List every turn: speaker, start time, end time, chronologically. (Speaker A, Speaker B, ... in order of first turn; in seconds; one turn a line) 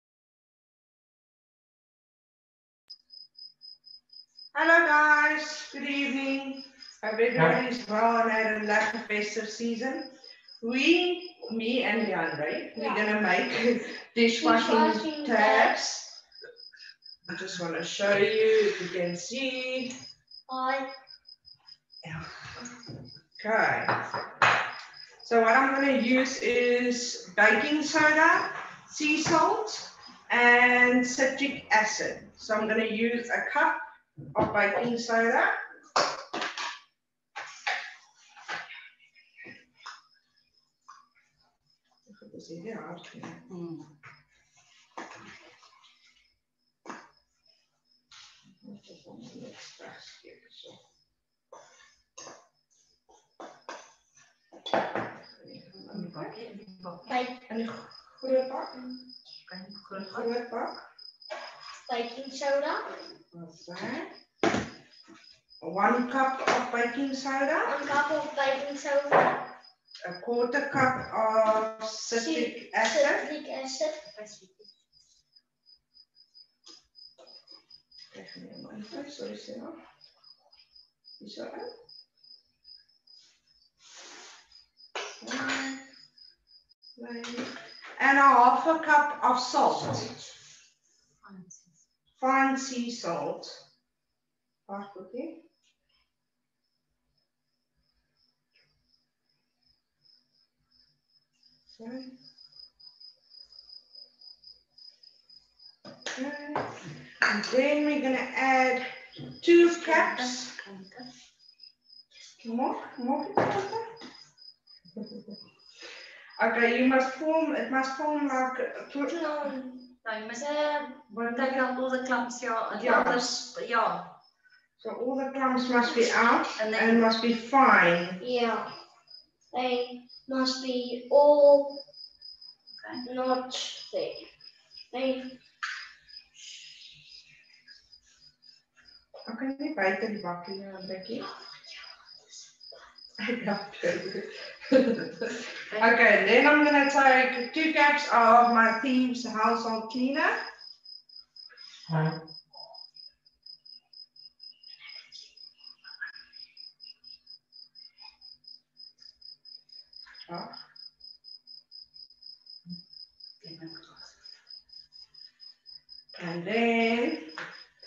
Speaker A: 4.5-10.1
Speaker A: 10.6-16.1
Speaker B: 12.8-13.0
Speaker B: 14.3-15.8
Speaker A: 17.3-19.9
Speaker B: 20.5-20.9
Speaker A: 23.4-24.0
Speaker A: 25.2-35.5
Speaker A: 42.1-43.5
Speaker A: 48.6-50.8
Speaker A: 55.4-56.3
Speaker C: 55.9-57.0
Speaker B: 57.1-57.5
Speaker A: 57.5-59.1
Speaker C: 59.5-60.3
Speaker A: 59.9-60.8
Speaker B: 61.9-62.9
Speaker A: 63.3-64.1
Speaker A: 65.6-67.8
Speaker B: 67.7-69.5
Speaker A: 70.0-73.3
Speaker B: 72.2-74.1
Speaker C: 74.2-74.5
Speaker A: 78.1-79.8
Speaker A: 81.2-81.7
Speaker A: 85.2-85.8
Speaker A: 87.0-90.3
Speaker C: 91.3-91.6
Speaker A: 92.2-93.6
Speaker A: 94.7-95.4
Speaker A: 101.8-102.1
Speaker A: 106.1-108.9
Speaker A: 109.4-110.5
Speaker C: 110.6-111.0
Speaker A: 112.4-113.9
Speaker A: 116.4-119.1
Speaker B: 119.0-121.0
Speaker C: 120.1-120.4
Speaker C: 121.1-124.1
Speaker A: 122.8-123.5
Speaker A: 124.8-128.2
Speaker C: 126.6-127.0
Speaker B: 128.2-128.7
Speaker B: 129.5-131.8
Speaker B: 133.1-134.3
Speaker B: 134.9-135.4
Speaker A: 139.3-141.3
Speaker A: 143.2-150.4
Speaker A: 160.3-160.5
Speaker C: 163.4-164.0
Speaker A: 166.1-167.3